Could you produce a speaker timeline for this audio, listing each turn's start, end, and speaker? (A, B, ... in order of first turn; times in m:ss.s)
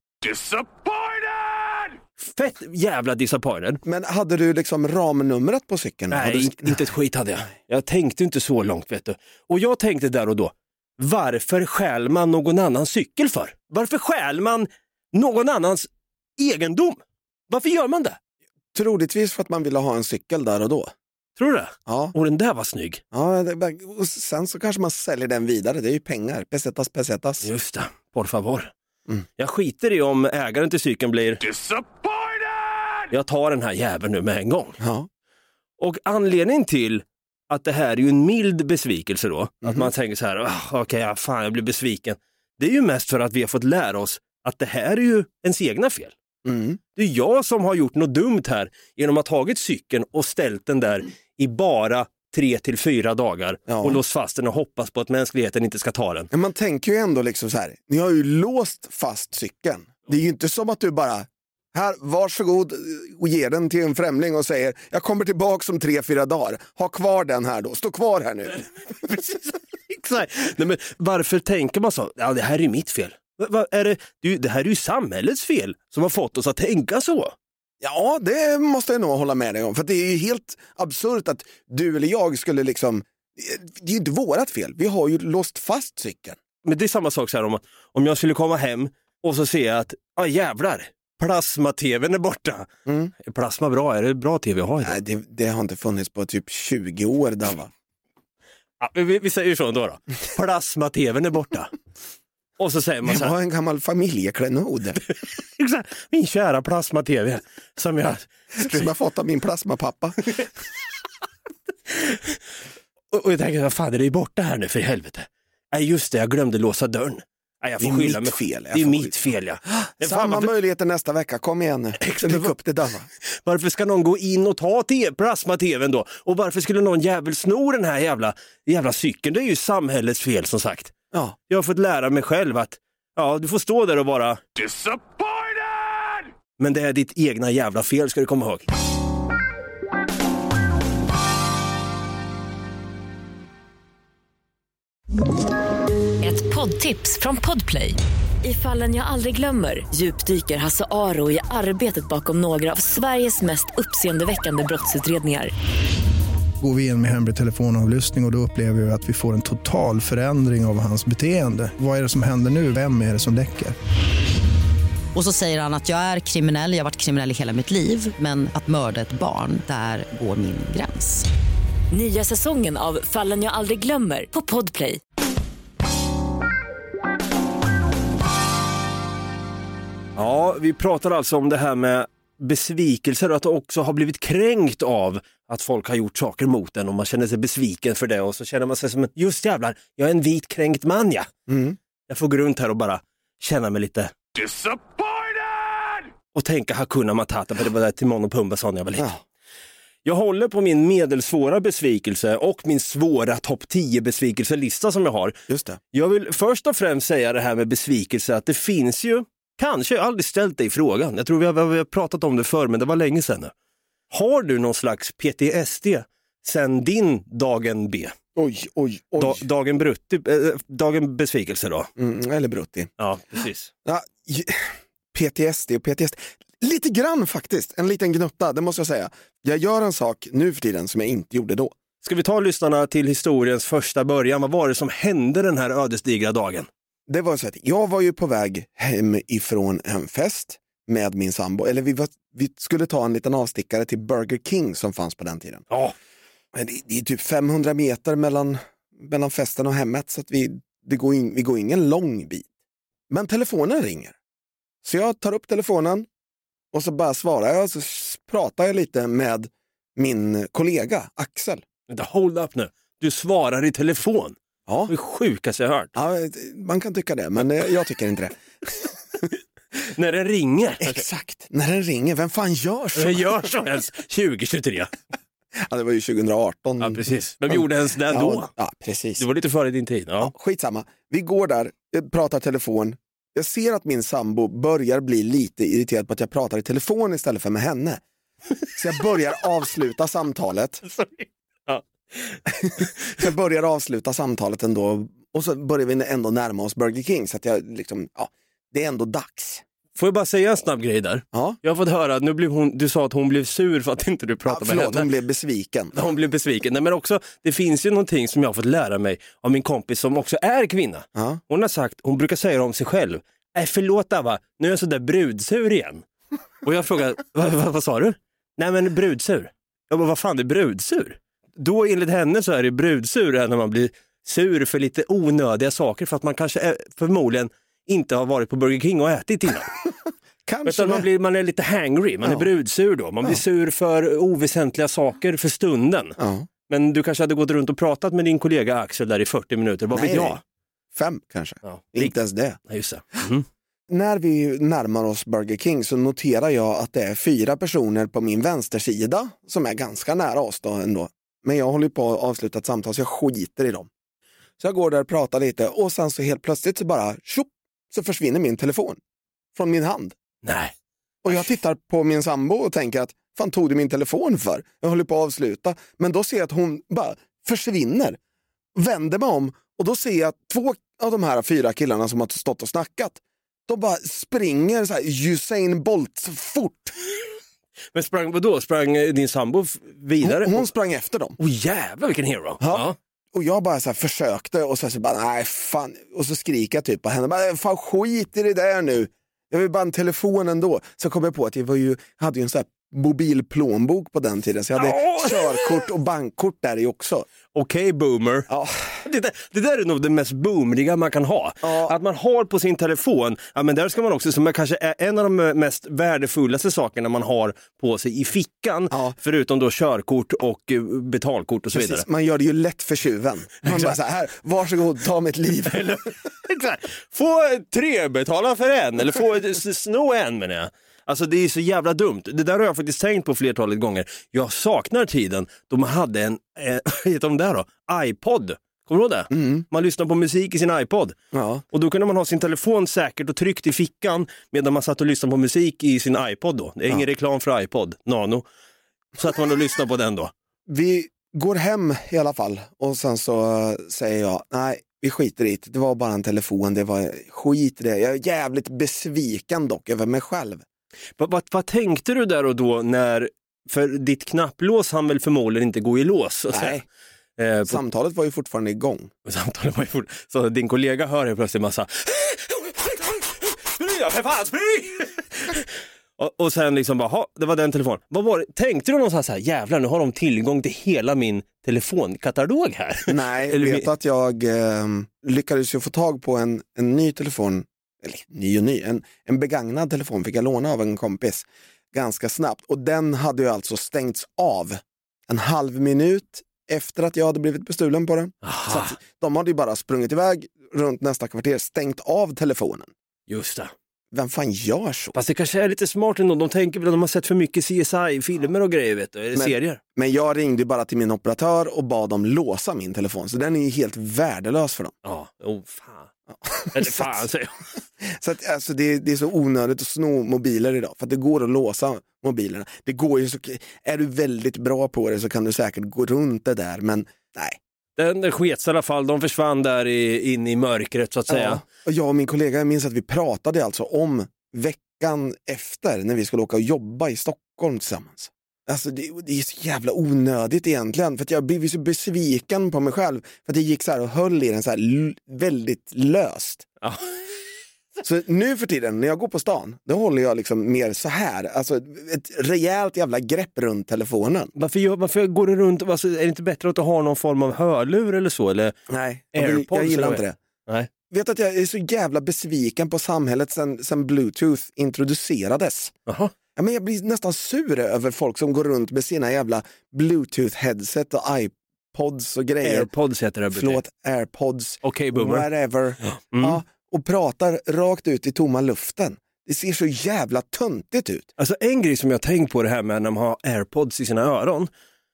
0:00.2-0:02.0 A
0:02.2-0:03.8 B
0:03.8-0:06.9 C
0:06.1-0:18.2 B
0:18.7-0:20.9 C
0:21.4-0:23.0 B
0:21.9-0:22.1 C
0:23.1-0:27.5 C
0:27.4-0:28.7 B
0:29.4-0:31.4 B
0:31.4-0:33.0 A
0:33.1-0:34.8 B
0:34.8-0:35.1 C
0:35.8-0:46.2 B
0:39.6-0:39.9 C
0:46.4-0:46.8 C
0:47.0-0:56.3 B
0:53.7-0:54.0 C
0:56.3-1:09.2 C
1:09.9-1:17.4 B
1:17.8-1:26.4 C
1:26.6-1:32.7 B
1:32.9-1:33.1 C
1:33.2-1:35.0 B
1:34.8-1:37.7 C
1:38.8-1:41.7 B
1:42.6-1:43.3 B
1:43.0-1:45.0 C
1:45.6-1:48.9 B
1:48.5-1:50.4 C
1:51.9-1:52.2 B
1:53.1-2:00.5 B
1:57.8-2:03.1 C
2:02.0-2:02.6 B
2:03.4-2:10.9 B
2:11.5-2:14.4 B
2:14.6-2:16.2 A
2:16.6-2:18.7 B
2:26.2-2:35.5 D
2:36.6-2:43.8 E
2:45.2-2:51.2 F
2:51.9-2:55.0 D
3:00.2-3:11.3 B
3:11.5-3:11.8 C
3:12.1-3:14.1 B
3:14.4-3:16.0 A
3:16.3-3:19.1 B
3:19.0-3:19.2 C
3:20.0-3:25.4 B
3:25.5-3:25.8 C
3:25.9-3:33.5 B
3:34.1-3:38.2 B
3:38.4-3:39.4 C
3:39.2-3:41.9 B
3:42.0-3:42.9 C
3:43.0-3:43.7 B
3:43.8-3:51.7 C
3:52.0-3:56.7 B
3:57.1-4:05.7 C
4:06.5-4:12.5 C
4:13.1-4:14.2 C
4:14.8-4:16.1 C
4:16.7-4:21.6 C
4:21.9-4:24.4 B
4:24.7-4:24.9 C
4:24.9-4:25.9 B
4:26.0-4:28.9 C
4:29.9-4:31.0 B
4:30.8-4:33.4 C
4:33.0-4:34.9 B
4:35.5-4:39.2 C
4:36.8-4:38.5 B
4:39.2-4:40.3 B
4:40.2-4:48.0 C
4:48.8-4:50.8 C
4:50.9-4:52.4 B
4:52.5-4:59.6 C
5:00.0-5:05.1 B
5:01.3-5:01.6 C
5:04.5-5:06.0 C
5:05.9-5:16.0 B
5:11.2-5:11.4 C
5:16.6-5:29.7 B
5:30.5-5:31.1 C
5:30.6-5:40.4 B
5:32.2-5:32.5 C
5:36.2-5:36.5 C
5:39.9-5:40.4 C
5:40.9-5:42.6 C
5:41.6-5:43.5 B
5:43.9-5:53.9 C
5:54.6-5:59.0 C
5:59.5-6:00.2 C
6:00.4-6:00.7 B
6:01.2-6:08.2 C
6:08.8-6:16.9 C
6:17.9-6:20.7 B
6:20.2-6:21.4 C
6:21.4-6:23.0 B
6:22.6-6:37.3 C
6:34.8-6:35.8 B
6:37.5-6:38.5 B
6:38.5-6:39.0 C
6:39.0-6:52.0 B
6:41.6-6:41.9 C
6:48.9-6:49.2 C
6:51.7-6:56.1 C
6:53.6-6:53.9 B
6:55.7-7:11.2 B
7:09.3-7:09.6 C
7:11.3-7:11.6 C
7:11.7-7:18.4 B
7:19.2-7:20.3 B
7:20.7-7:30.6 C
7:31.2-7:36.8 B
7:36.5-7:36.8 C
7:37.4-7:37.8 B
7:37.7-7:39.1 C
7:39.2-7:45.7 B
7:46.2-7:53.9 B
7:53.1-8:12.9 C
8:08.4-8:09.0 B
8:13.3-8:13.7 B
8:14.1-8:15.2 C
8:15.2-8:19.8 B
8:19.3-8:25.0 C
8:25.0-8:26.1 B
8:26.3-8:27.2 C
8:26.7-8:27.6 B
8:28.0-8:37.6 C
8:38.0-8:41.6 B
8:41.3-8:56.7 C
8:58.0-9:04.5 C
9:04.6-9:08.8 B
9:08.9-9:10.4 C
9:09.3-9:10.9 B
9:11.1-9:15.9 C
9:16.1-9:16.3 B
9:16.6-9:22.9 C
9:22.6-9:23.8 B
9:23.5-9:31.3 C
9:24.8-9:25.5 B
9:26.1-9:26.6 B
9:31.4-9:34.7 B